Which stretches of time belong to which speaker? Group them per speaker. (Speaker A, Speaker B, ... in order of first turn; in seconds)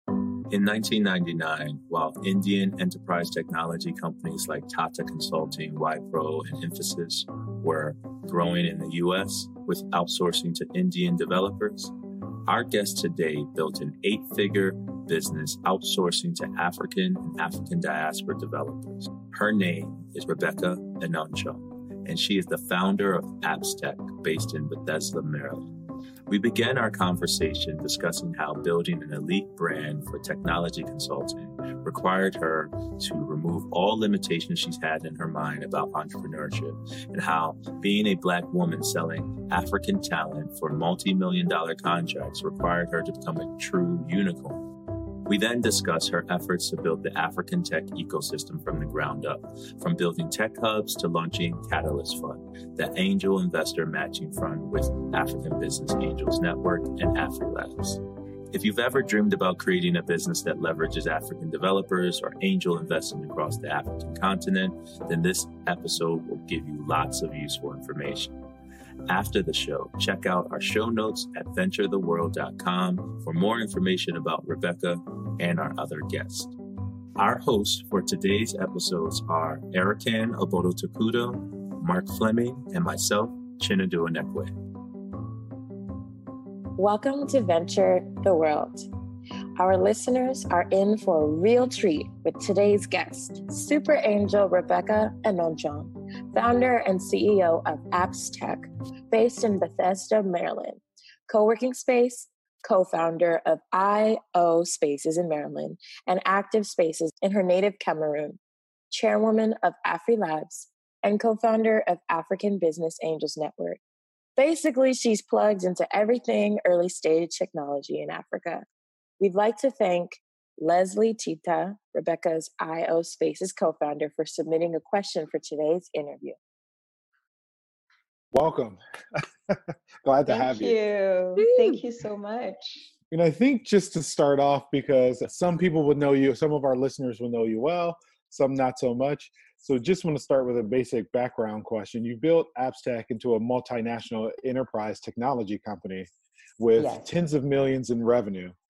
Speaker A: 0.5-11.9, 12.4-25.7, 26.3-44.6, 45.2-68.3, 69.1-76.5, 77.2-84.5
Speaker B: 86.8-88.9, 89.6-108.4, 108.9-113.8, 114.4-118.6, 119.2-126.4
Speaker C: 128.3-130.8, 133.1-146.1, 146.6-148.5
Speaker D: 130.3-132.8, 146.8-147.1